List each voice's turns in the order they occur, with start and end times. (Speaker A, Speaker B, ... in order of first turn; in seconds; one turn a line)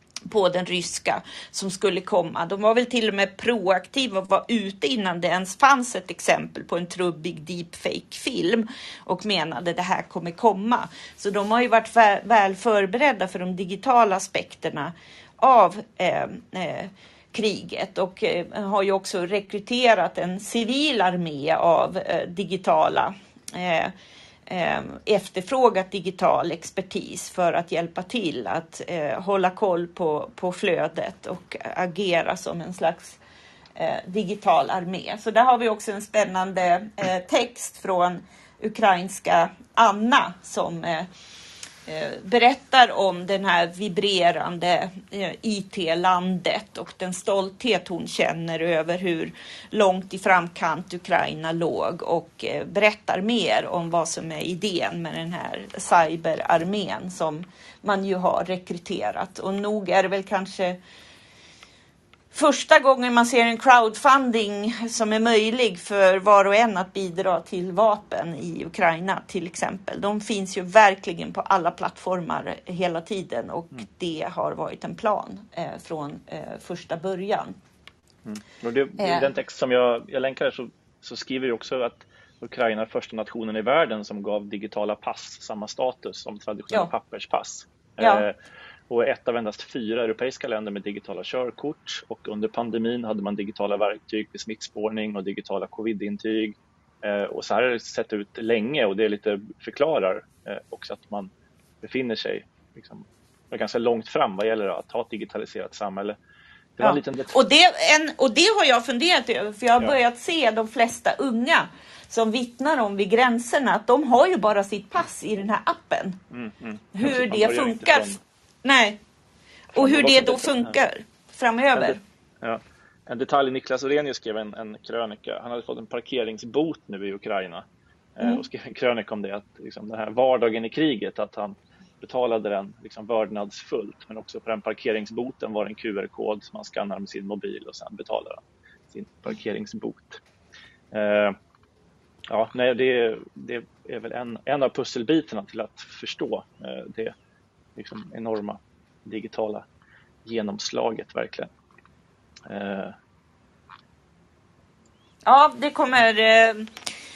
Speaker A: 0.3-23.9
Speaker A: 24.5-33.2
Speaker A: 33.8-41.1
Speaker A: 41.9-60.8
Speaker A: 62.3-77.6
Speaker B: 78.2-88.3
Speaker A: 79.0-79.3
Speaker A: 88.0-88.2
Speaker B: 88.9-101.3
Speaker B: 101.8-106.2
Speaker B: 106.8-107.4
Speaker A: 106.8-116.2
Speaker B: 116.3-118.2
Speaker A: 116.9-119.0
Speaker A: 119.7-122.0
Speaker B: 119.8-120.7
Speaker B: 121.7-127.6
Speaker B: 128.2-140.2
Speaker B: 140.9-141.3
Speaker B: 142.3-147.1
Speaker B: 147.8-149.7
Speaker B: 150.2-151.5
Speaker B: 152.5-152.9
Speaker A: 155.2-156.7